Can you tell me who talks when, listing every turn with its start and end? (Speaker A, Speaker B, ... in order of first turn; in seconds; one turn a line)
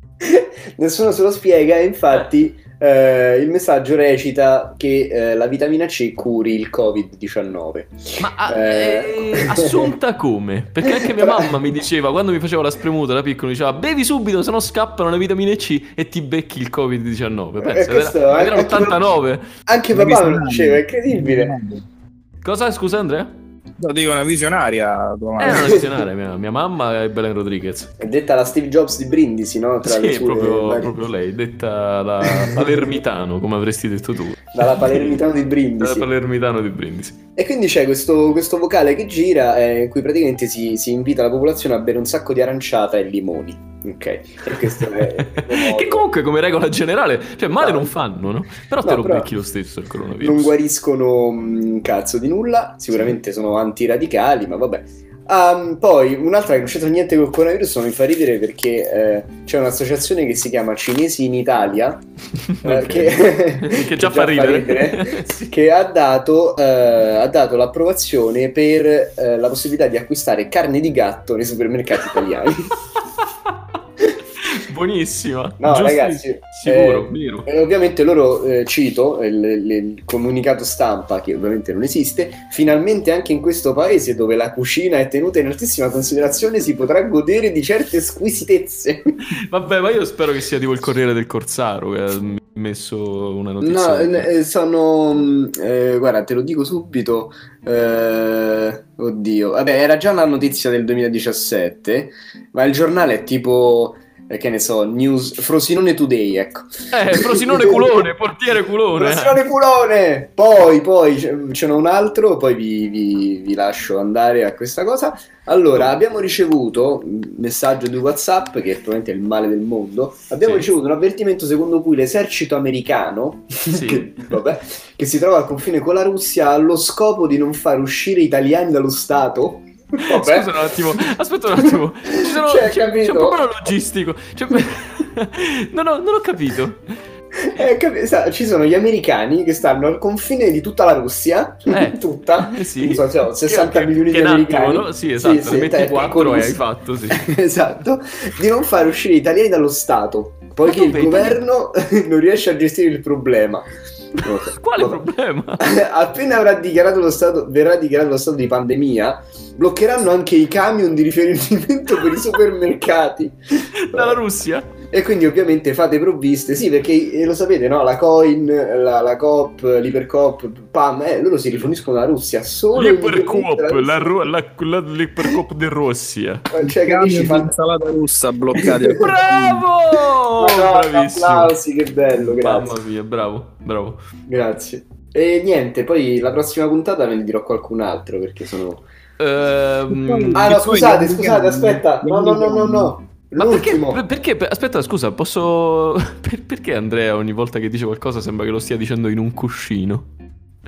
Speaker A: 0.2-9.9
Speaker B: 8.2-19.5
Speaker A: 10.9-11.5
Speaker A: 17.6-19.0
Speaker A: 19.7-21.6
Speaker C: 19.9-21.8
Speaker B: 22.4-23.3
Speaker C: 23.8-25.9
Speaker B: 25.4-28.0
Speaker A: 28.0-30.9
Speaker B: 29.8-35.2
Speaker A: 32.3-32.7
Speaker A: 34.5-36.1
Speaker B: 35.8-37.2
Speaker A: 37.4-46.1
Speaker B: 44.9-50.5
Speaker A: 47.6-48.0
Speaker A: 48.8-49.3
Speaker A: 50.2-62.0
Speaker B: 62.4-65.4
Speaker A: 62.6-72.7
Speaker B: 74.4-77.5
Speaker A: 75.6-89.1
Speaker B: 89.3-94.3
Speaker A: 93.6-108.0
Speaker B: 106.9-109.4
Speaker A: 109.0-130.5
Speaker B: 120.4-120.7
Speaker B: 123.7-124.3
Speaker B: 130.0-137.0
Speaker A: 131.6-133.4
Speaker A: 137.3-155.0
Speaker B: 141.7-147.2
Speaker B: 150.7-151.4
Speaker B: 154.5-155.7
Speaker A: 155.6-164.2
Speaker B: 163.7-164.7
Speaker A: 164.9-174.3
Speaker B: 172.8-176.5
Speaker A: 176.5-177.5
Speaker C: 176.6-179.6
Speaker A: 178.6-179.0
Speaker B: 179.0-181.6
Speaker A: 180.4-182.8
Speaker B: 182.3-184.0
Speaker A: 184.3-188.8
Speaker B: 189.2-190.6
Speaker C: 189.9-192.9
Speaker A: 190.3-194.0
Speaker B: 193.4-200.1